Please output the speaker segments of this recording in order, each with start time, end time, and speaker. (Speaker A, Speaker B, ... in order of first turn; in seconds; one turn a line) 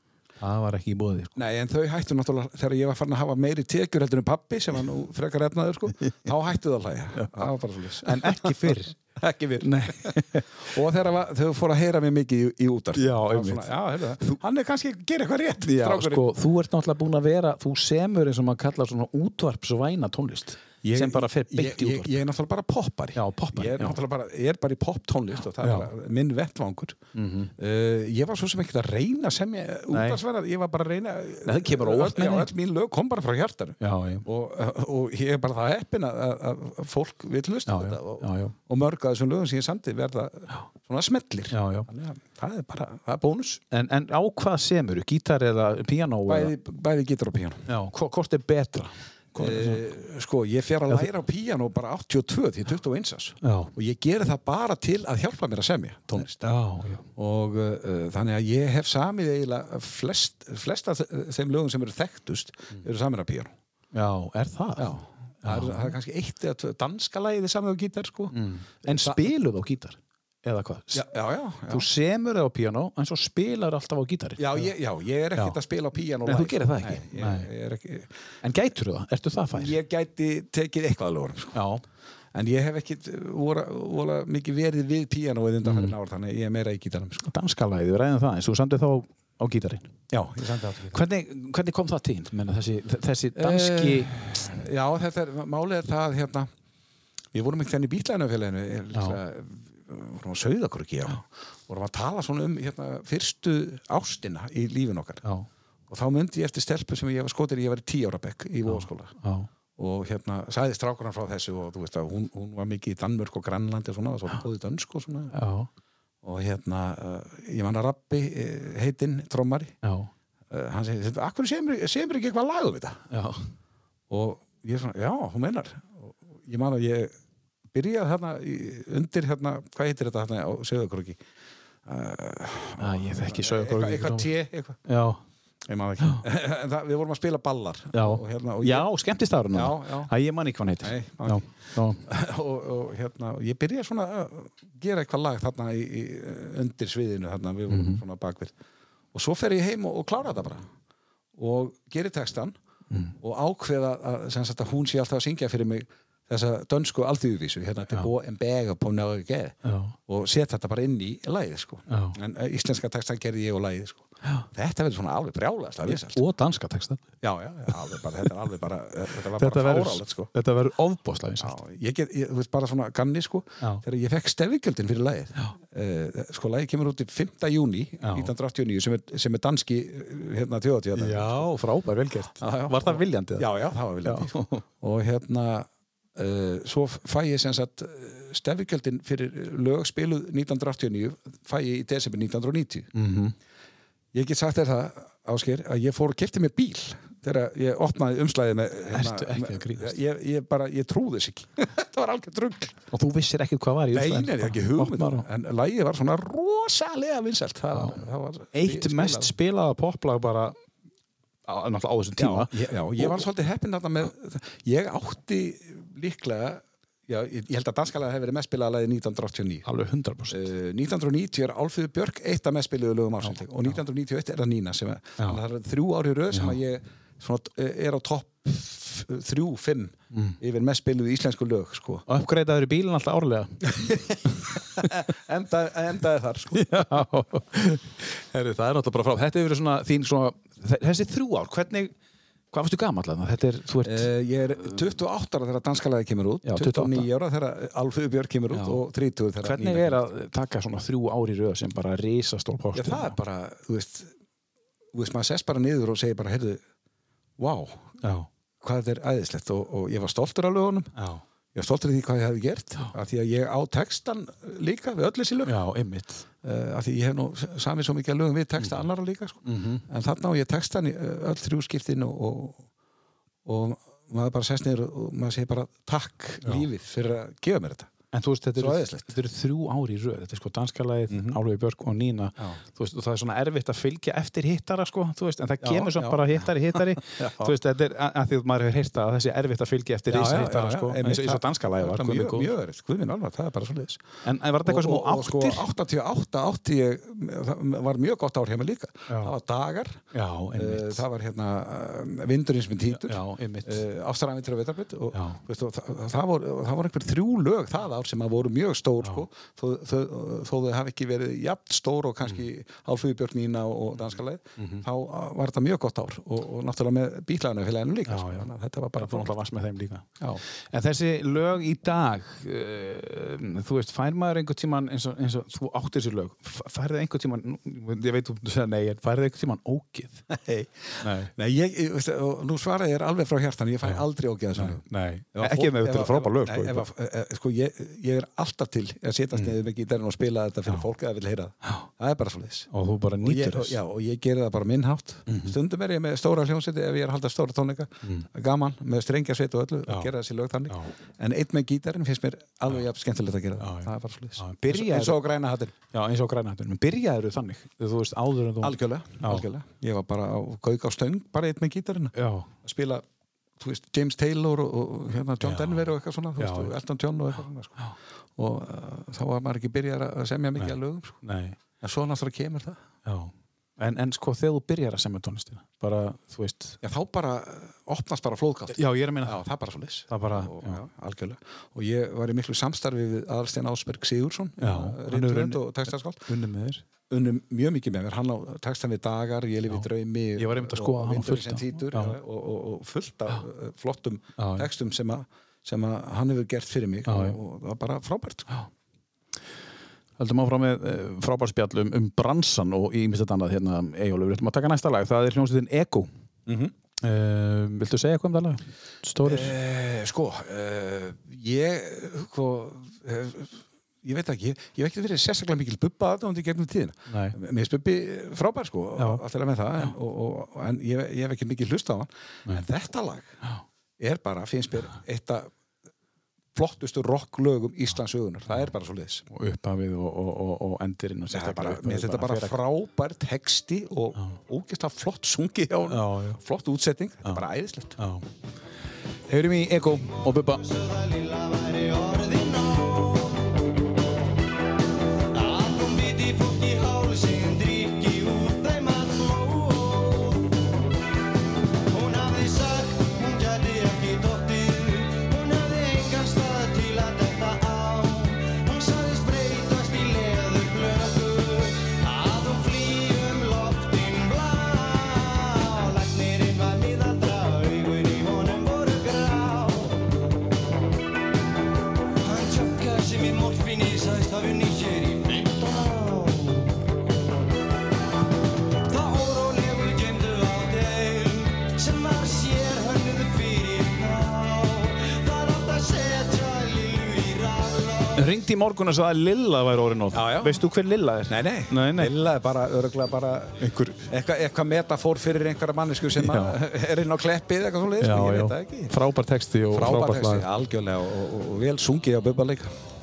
Speaker A: 0.4-1.4
Speaker B: 1.4-16.3
Speaker A: 6.0-6.3
Speaker A: 7.1-8.9
Speaker A: 9.6-10.4
Speaker A: 12.9-14.4
Speaker A: 15.6-22.2
Speaker B: 20.8-27.0
Speaker A: 23.1-24.0
Speaker A: 25.6-25.9
Speaker A: 27.1-27.5
Speaker B: 27.6-43.6
Speaker A: 29.9-30.2
Speaker A: 31.4-32.5
Speaker A: 33.8-34.2
Speaker A: 37.7-38.5
Speaker A: 41.5-41.9
Speaker A: 43.7-46.5
Speaker B: 46.3-47.6
Speaker A: 47.7-49.8
Speaker B: 49.4-56.5
Speaker A: 53.4-53.7
Speaker A: 56.2-57.0
Speaker B: 57.1-63.5
Speaker A: 63.9-65.9
Speaker B: 64.8-69.3
Speaker A: 68.3-71.1
Speaker B: 70.9-71.9
Speaker A: 71.7-74.7
Speaker B: 74.4-78.1
Speaker A: 76.2-77.5
Speaker A: 78.4-79.7
Speaker B: 79.5-81.6
Speaker A: 81.5-81.8
Speaker B: 82.3-87.3
Speaker A: 85.6-85.9
Speaker A: 87.2-89.9
Speaker B: 90.1-91.0
Speaker A: 90.9-94.2
Speaker B: 93.3-96.5
Speaker B: 97.3-105.2
Speaker A: 98.9-99.2
Speaker B: 105.9-109.1
Speaker A: 108.7-109.5
Speaker B: 109.8-115.3
Speaker A: 115.3-115.7
Speaker B: 116.2-119.7
Speaker A: 119.8-120.1
Speaker B: 120.5-123.0
Speaker A: 123.1-123.5
Speaker B: 124.1-127.1
Speaker B: 127.7-131.2
Speaker B: 131.8-134.8
Speaker A: 132.8-134.3
Speaker A: 134.8-135.2
Speaker B: 135.7-138.9
Speaker A: 137.9-142.0
Speaker B: 139.5-140.1
Speaker B: 140.8-141.5
Speaker B: 142.0-148.5
Speaker A: 147.7-148.0
Speaker B: 149.1-150.7
Speaker B: 151.4-152.5
Speaker B: 153.2-159.6
Speaker A: 159.6-159.9
Speaker B: 160.1-166.2
Speaker A: 161.9-162.2
Speaker A: 165.8-167.0
Speaker B: 167.2-170.3
Speaker A: 169.3-171.6
Speaker B: 171.4-181.5
Speaker A: 178.0-178.3
Speaker A: 180.9-184.6
Speaker B: 182.4-192.9
Speaker A: 192.9-193.3
Speaker B: 194.1-202.8
Speaker A: 198.9-200.0
Speaker A: 202.9-205.3
Speaker B: 203.9-209.3
Speaker A: 207.7-208.0
Speaker A: 208.5-210.6
Speaker A: 211.4-213.3
Speaker B: 212.2-219.7
Speaker A: 219.6-220.5
Speaker B: 220.3-232.0
Speaker A: 223.2-223.7
Speaker A: 230.1-230.4
Speaker A: 232.1-233.7
Speaker B: 233.7-236.9
Speaker A: 236.5-241.9
Speaker A: 242.5-244.1
Speaker B: 243.8-250.0
Speaker A: 246.4-247.1
Speaker A: 248.5-248.8
Speaker A: 249.4-253.2
Speaker B: 252.7-254.1
Speaker B: 254.9-256.6
Speaker B: 257.4-257.9
Speaker A: 258.0-258.3
Speaker B: 258.6-260.9
Speaker A: 260.9-261.2
Speaker B: 261.5-265.6
Speaker A: 265.4-266.2
Speaker B: 266.4-272.6
Speaker A: 268.6-268.9
Speaker A: 269.4-269.8
Speaker B: 273.4-277.9
Speaker A: 278.1-292.5
Speaker B: 278.6-279.1
Speaker B: 281.1-281.4
Speaker B: 285.6-287.5
Speaker B: 290.1-294.0
Speaker A: 294.2-295.7
Speaker B: 294.6-319.3
Speaker A: 299.1-299.3
Speaker A: 300.1-301.0
Speaker A: 302.9-303.8
Speaker A: 305.1-305.4
Speaker A: 314.6-314.8
Speaker A: 318.1-330.2
Speaker B: 330.3-334.8
Speaker A: 331.0-331.3
Speaker A: 333.8-336.9
Speaker B: 335.3-342.7
Speaker A: 342.7-343.8
Speaker B: 343.2-355.7
Speaker A: 345.3-345.5
Speaker A: 353.6-355.2
Speaker A: 355.9-359.5
Speaker B: 358.6-363.0
Speaker A: 362.1-362.5
Speaker B: 363.6-371.2
Speaker A: 365.4-366.7
Speaker A: 370.6-371.6
Speaker B: 371.8-372.8
Speaker A: 373.0-376.8
Speaker B: 376.8-386.3
Speaker A: 378.7-379.4
Speaker A: 380.1-380.8
Speaker A: 384.6-386.8
Speaker B: 387.1-398.6
Speaker A: 389.7-392.2
Speaker A: 394.4-394.7
Speaker A: 397.1-397.4
Speaker A: 400.2-406.1
Speaker B: 406.5-406.7
Speaker A: 407.0-409.5
Speaker B: 409.2-423.4
Speaker A: 417.1-417.4
Speaker A: 419.0-419.2
Speaker B: 424.0-425.5
Speaker B: 426.5-429.2
Speaker A: 429.3-432.6
Speaker B: 431.3-437.9
Speaker A: 435.9-436.4
Speaker A: 438.0-438.2
Speaker A: 439.3-440.6
Speaker C: 440.6-443.6
Speaker C: 445.3-450.6
Speaker C: 451.9-470.1
Speaker C: 472.2-476.8
Speaker C: 478.9-488.2
Speaker A: 488.1-492.1
Speaker B: 490.1-490.6
Speaker B: 491.3-498.9
Speaker A: 493.6-494.1
Speaker A: 496.1-496.6
Speaker A: 498.0-500.5
Speaker B: 499.7-502.7